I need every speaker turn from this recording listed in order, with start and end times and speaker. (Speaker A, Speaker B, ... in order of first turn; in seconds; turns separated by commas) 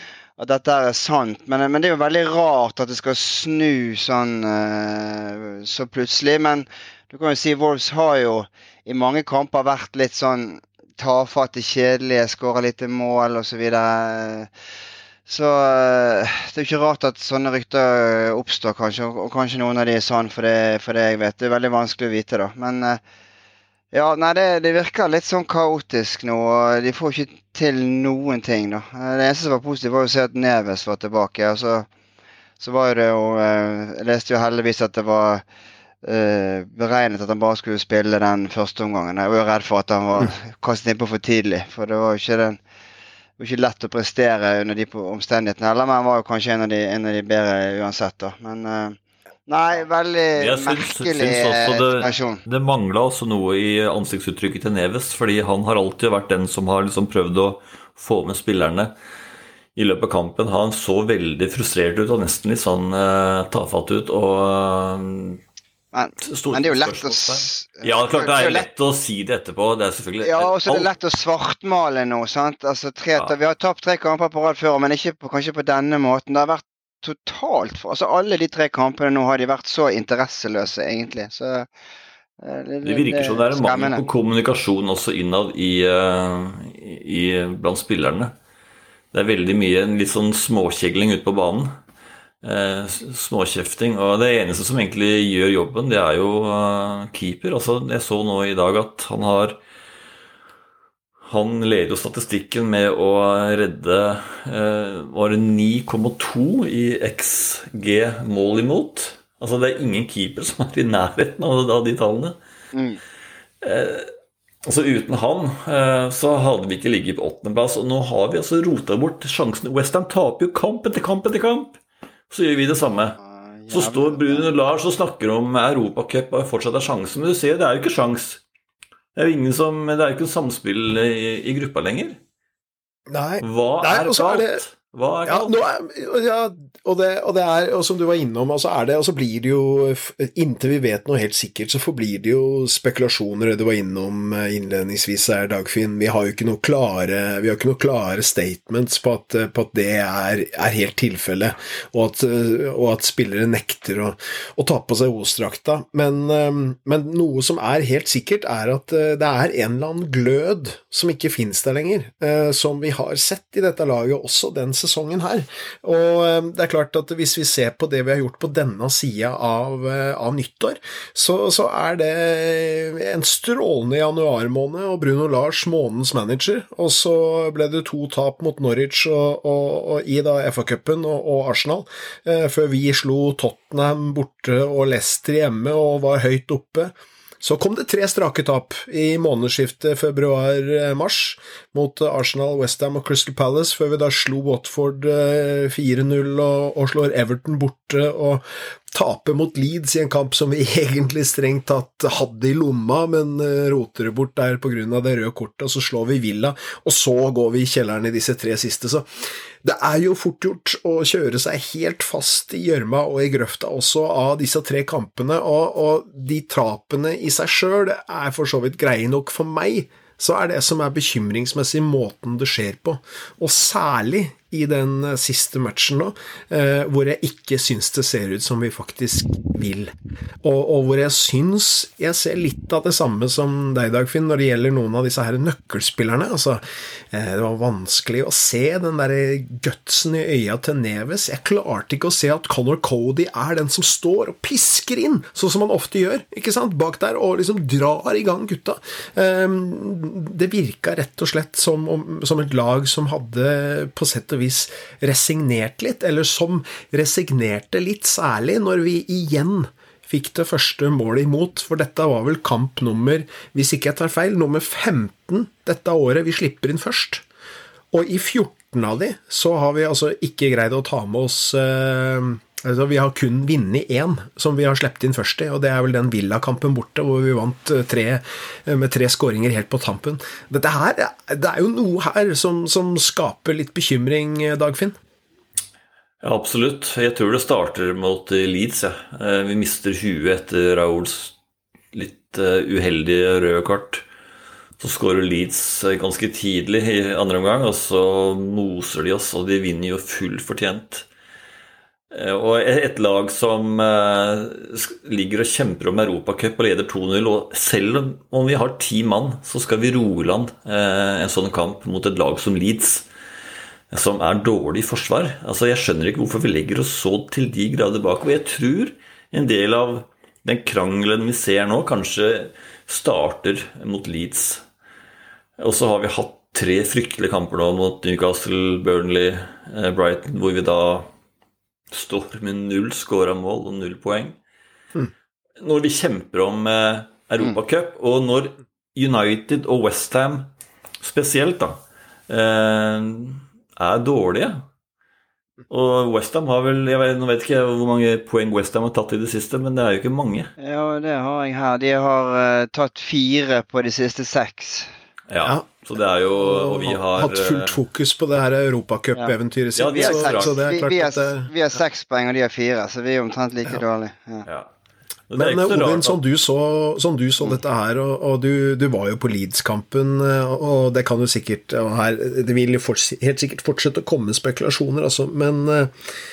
Speaker A: 0.4-14.5, Speaker A: 15.3-23.0, Speaker A: 23.9-31.9, Speaker A: 32.6-35.4, Speaker A: 36.0-42.6, Speaker A: 43.4-52.4, Speaker B: 50.4-58.9, Speaker B: 59.8-65.4, Speaker A: 65.9-68.7, Speaker B: 66.2-70.9, Speaker A: 70.2-81.7, Speaker A: 82.4-84.0, Speaker B: 82.8-88.3, Speaker B: 89.1-91.7, Speaker B: 92.4-99.6, Speaker B: 101.2-112.4, Speaker A: 112.7-113.0, Speaker B: 113.6-114.1, Speaker B: 114.6-121.8, Speaker B: 122.3-123.2, Speaker A: 123.6-124.5, Speaker B: 123.7-128.4, Speaker B: 129.1-132.2, Speaker C: 133.1-134.6, Speaker B: 133.4-135.6, Speaker C: 135.2-209.1, Speaker C: 209.6-267.2, Speaker C: 267.9-285.0, Speaker B: 286.2-291.3, Speaker B: 291.9-294.0, Speaker B: 294.8-301.1, Speaker B: 302.1-313.1, Speaker B: 313.9-324.6, Speaker B: 325.6-331.1, Speaker B: 331.9-334.4, Speaker B: 335.6-340.5, Speaker B: 341.0-344.6, Speaker B: 345.7-350.5, Speaker A: 350.6-354.9, Speaker B: 355.3-357.8, Speaker C: 356.4-361.5, Speaker B: 359.8-360.6, Speaker A: 359.9-364.4, Speaker B: 365.3-366.2, Speaker C: 365.4-375.9